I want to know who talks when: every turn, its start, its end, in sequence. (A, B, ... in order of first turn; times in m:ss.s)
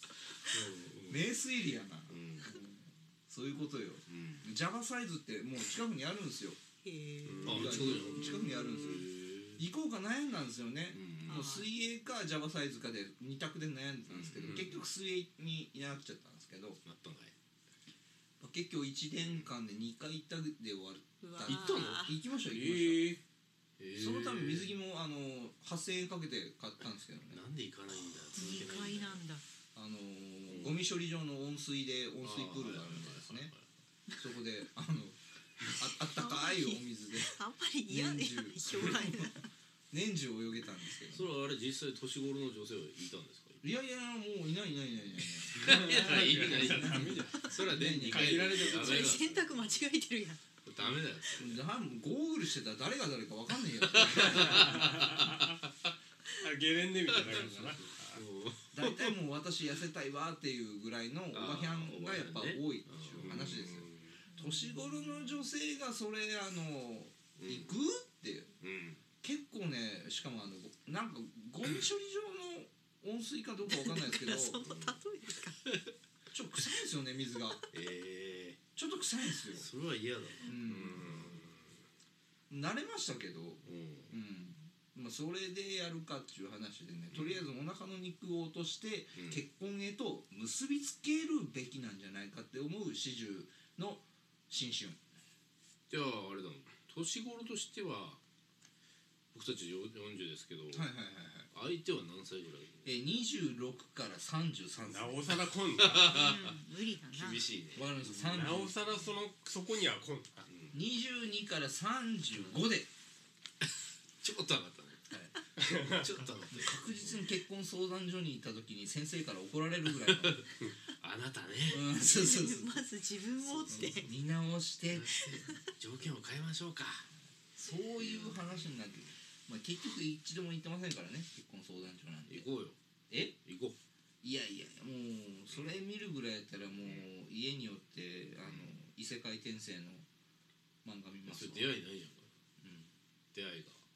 0:00.5-0:01.2 A
0:01.1-0:06.6 B
0:02.1-0:02.6 A
0:04.1-0:04.5 A
0:06.8-0:07.8 C
0:07.2-0:08.1 D
0:07.4-0:16.8 B
0:07.4-0:09.6 A
0:10.9-0:11.5 A
0:11.3-0:11.7 C
0:14.1-0:14.9 A
0:16.8-0:17.3 A
0:18.4-0:23.1 B
0:19.2-0:19.5 A
0:21.2-0:22.2 C
0:21.4-0:22.0 A
0:22.4-0:23.2 D
0:23.8-0:24.7 A
0:24.0-0:27.4 B
0:27.3-0:29.2 A
0:28.3-0:29.4 C
0:29.8-0:33.5 B
0:30.5-0:30.8 A
0:32.2-0:33.7 A
0:34.2-0:35.2 B
0:35.8-0:39.3 B
0:36.1-0:39.5 C
0:39.9-0:41.3 B
0:41.1-0:43.6 A
0:43.6-0:48.8 B
0:45.5-0:49.8 A
0:45.6-0:49.2 D
0:48.7-0:50.4 C
0:50.6-0:51.6 A
0:51.4-0:55.0 B
0:53.9-0:55.5 A
0:54.2-0:55.6 D
0:56.3-0:58.2 D
0:57.1-0:59.2 A
0:58.7-1:08.6 B
1:01.3-1:03.9 A
1:04.3-1:05.2 C
1:07.4-1:07.7 A
1:08.6-1:09.0 A
1:09.2-1:14.6 B
1:13.7-1:15.6 C
1:14.6-1:15.0 A
1:15.6-1:15.9 A
1:16.3-1:17.6 B
1:17.7-1:18.6 A
1:18.8-1:19.7 B
1:19.5-1:21.5 A
1:20.4-1:21.3 B
1:20.5-1:21.6 D
1:22.5-1:35.0 B
1:23.6-1:24.1 A
1:27.1-1:27.4 A
1:29.2-1:29.4 A
1:35.9-1:38.2 A
1:39.3-1:40.9 A
1:40.7-1:41.5 B
1:41.5-1:42.9 A
1:42.8-1:45.5 B
1:44.8-1:46.3 D
1:45.8-1:46.6 A
1:46.1-1:47.4 C
1:47.1-1:48.6 A
1:47.8-1:48.9 B
1:48.2-1:50.5 D
1:50.5-1:50.8 A
1:50.7-1:52.9 B
1:54.2-1:57.3 A
1:55.6-1:56.2 D
1:56.5-2:00.4 B
2:00.0-2:01.9 A
2:01.7-2:02.8 B
2:01.7-2:04.1 C
2:03.5-2:04.0 A
2:03.7-2:05.2 B
2:04.9-2:07.1 A
2:05.2-2:05.7 C
2:07.6-2:12.5 B
2:08.0-2:08.8 A
2:12.3-2:12.8 A
2:13.1-2:13.4 B
2:13.4-2:13.8 A
2:14.2-2:20.1 B
2:18.4-2:18.7 A
2:20.8-2:21.8 B
2:21.3-2:22.3 A
2:22.6-2:22.9 B
2:23.3-2:23.8 A